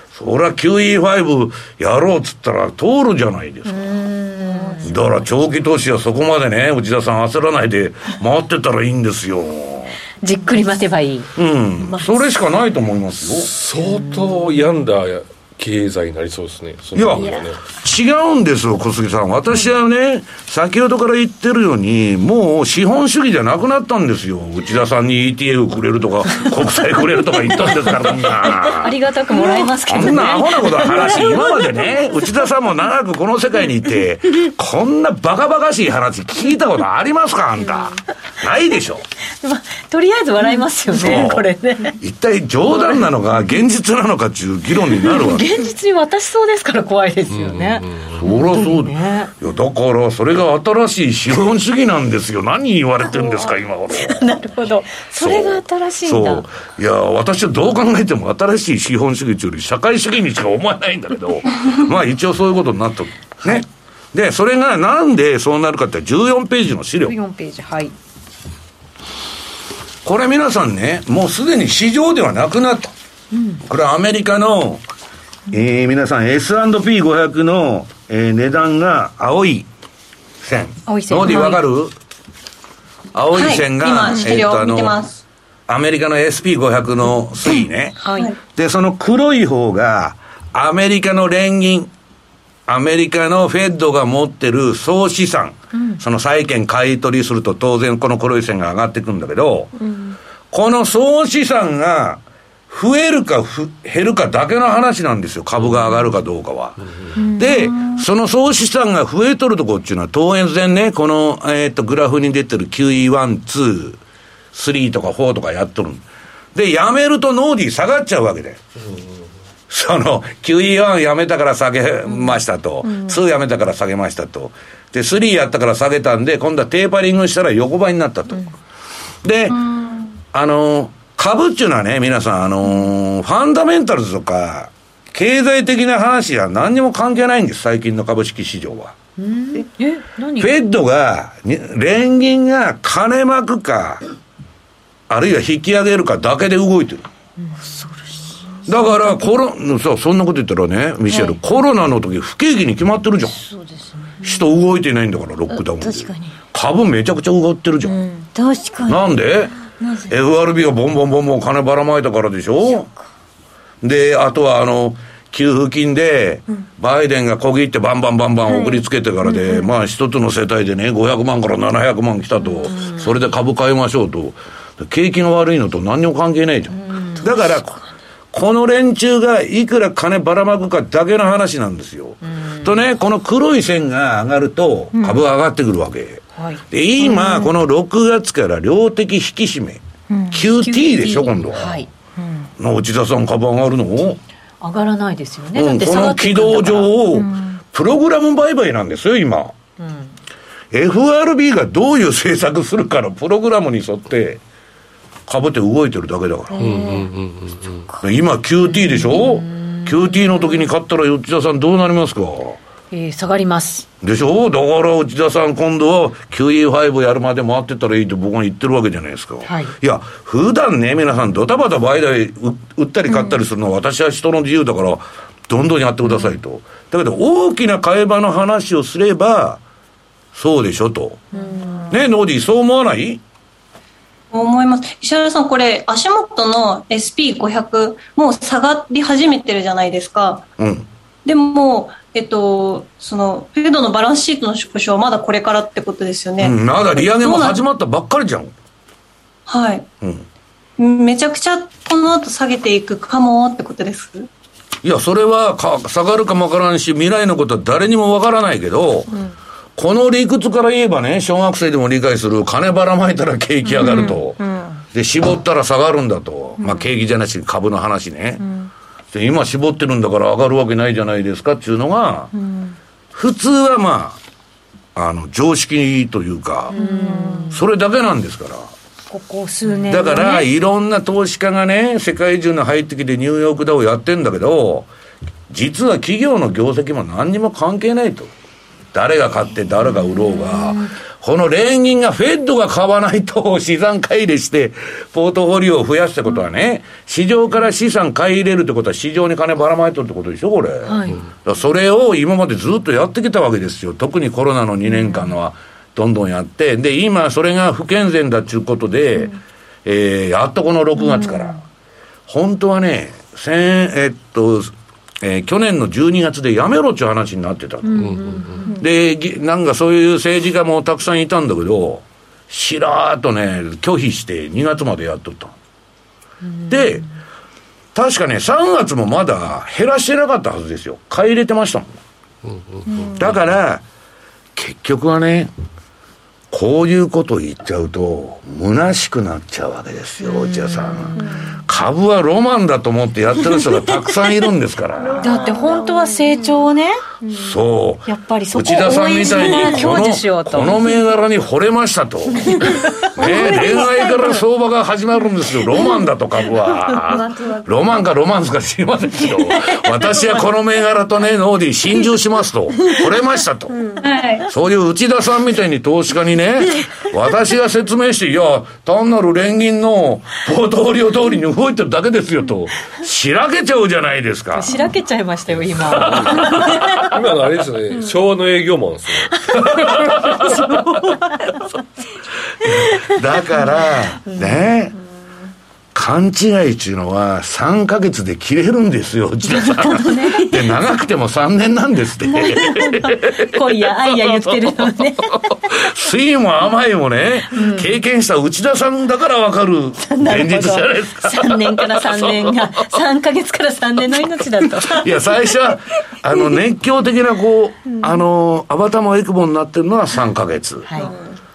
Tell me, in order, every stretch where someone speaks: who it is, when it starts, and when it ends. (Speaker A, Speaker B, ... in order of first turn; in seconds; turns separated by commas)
Speaker A: 0.1-3.9, Speaker B: 3.6-5.0, Speaker C: 4.5-5.1, Speaker A: 4.8-10.0, Speaker B: 10.2-11.3, Speaker A: 11.3-13.5, Speaker C: 11.8-12.2, Speaker D: 13.4-17.6, Speaker B: 13.8-14.6, Speaker A: 16.9-39.0, Speaker C: 17.2-17.4, Speaker B: 28.7-31.6, Speaker B: 39.4-42.0, Speaker A: 40.9-41.5, Speaker A: 42.0-45.5, Speaker B: 44.9-49.3, Speaker D: 47.3-48.1, Speaker A: 48.1-54.3, Speaker B: 53.9-56.4, Speaker A: 55.2-67.2, Speaker B: 67.0-67.9, Speaker A: 70.0-72.9, Speaker B: 73.3-73.6, Speaker A: 73.6-74.8, Speaker A: 75.5-79.7, Speaker A: 80.4-81.9, Speaker B: 80.9-81.6, Speaker A: 83.1-85.0, Speaker E: 83.3-85.2, Speaker A: 85.7-91.9, Speaker B: 88.0-88.3, Speaker A: 92.7-99.7, Speaker B: 95.7-96.0, Speaker C: 99.8-100.1, Speaker A: 100.5-114.0, Speaker C: 107.2-107.9, Speaker A: 114.5-118.6, Speaker A: 119.7-128.5, Speaker A: 129.2-129.6, Speaker E: 129.6-130.1, Speaker A: 130.3-138.9, Speaker B: 139.2-140.5, Speaker A: 140.4-144.0, Speaker A: 145.1-147.0, Speaker B: 147.4-148.3, Speaker A: 148.7-153.4, Speaker B: 153.5-154.1, Speaker A: 154.2-157.9, Speaker C: 155.5-156.3, Speaker C: 157.8-159.2, Speaker A: 158.8-159.6, Speaker C: 159.8-160.1, Speaker A: 160.1-162.9, Speaker A: 163.8-177.8, Speaker C: 168.5-169.6, Speaker B: 172.6-173.1, Speaker B: 176.7-177.3, Speaker A: 178.3-191.8, Speaker B: 182.2-182.8, Speaker B: 186.3-186.6, Speaker C: 187.1-187.4, Speaker B: 190.6-191.9, Speaker A: 192.6-194.2, Speaker B: 194.6-196.9, Speaker A: 195.5-199.5, Speaker B: 199.8-200.1, Speaker A: 200.7-204.4, Speaker A: 205.3-206.8, Speaker C: 206.5-207.1, Speaker D: 206.6-207.8, Speaker A: 208.0-212.6, Speaker B: 208.7-210.6, Speaker B: 212.9-213.8, Speaker A: 214.0-229.6, Speaker B: 219.4-219.7, Speaker A: 230.3-231.2, Speaker B: 231.3-231.9, Speaker C: 231.3-231.9, Speaker A: 231.9-233.2, Speaker E: 234.3-240.4, Speaker A: 240.6-240.9, Speaker E: 241.2-247.6, Speaker A: 246.4-248.5, Speaker E: 249.5-249.9, Speaker E: 250.8-254.3, Speaker A: 254.8-259.1, Speaker A: 259.8-264.4, Speaker C: 263.8-264.8, Speaker A: 264.9-268.4, Speaker A: 269.1-272.3, Speaker C: 272.4-272.7, Speaker A: 273.1-274.2, Speaker A: 274.9-276.8, Speaker B: 276.7-277.6, Speaker C: 276.8-277.4, Speaker A: 277.5-278.7, Speaker B: 279.1-280.5, Speaker A: 279.9-284.9, Speaker A: 285.5-288.3, Speaker A: 288.9-311.6, Speaker B: 290.0-290.9, Speaker B: 300.8-301.2, Speaker A: 312.3-318.1, Speaker B: 317.8-318.8, Speaker D: 318.0-318.7, Speaker A: 318.7-325.5, Speaker B: 326.5-327.0, Speaker A: 326.7-327.0, Speaker A: 327.9-332.0, Speaker D: 332.4-332.9, Speaker A: 333.1-333.8, Speaker A: 334.5-335.5, Speaker A: 336.5-345.4, Speaker B: 340.3-341.4, Speaker C: 344.9-346.6, Speaker B: 345.2-347.0, Speaker C: 347.2-347.5, Speaker A: 347.3-363.8, Speaker B: 348.1-350.9, Speaker C: 349.3-349.8, Speaker C: 352.7-354.4, Speaker C: 356.9-357.9, Speaker C: 363.7-364.0, Speaker E: 364.0-364.4, Speaker A: 364.4-374.7, Speaker B: 374.5-377.1, Speaker D: 375.5-380.5, Speaker A: 382.6-384.9, Speaker B: 384.2-384.7, Speaker A: 385.9-394.8, Speaker B: 389.5-390.7, Speaker B: 392.2-395.7, Speaker A: 395.3-402.6, Speaker B: 397.5-397.9, Speaker B: 400.0-405.1, Speaker A: 404.8-411.0, Speaker B: 410.9-411.1, Speaker C: 411.0-411.3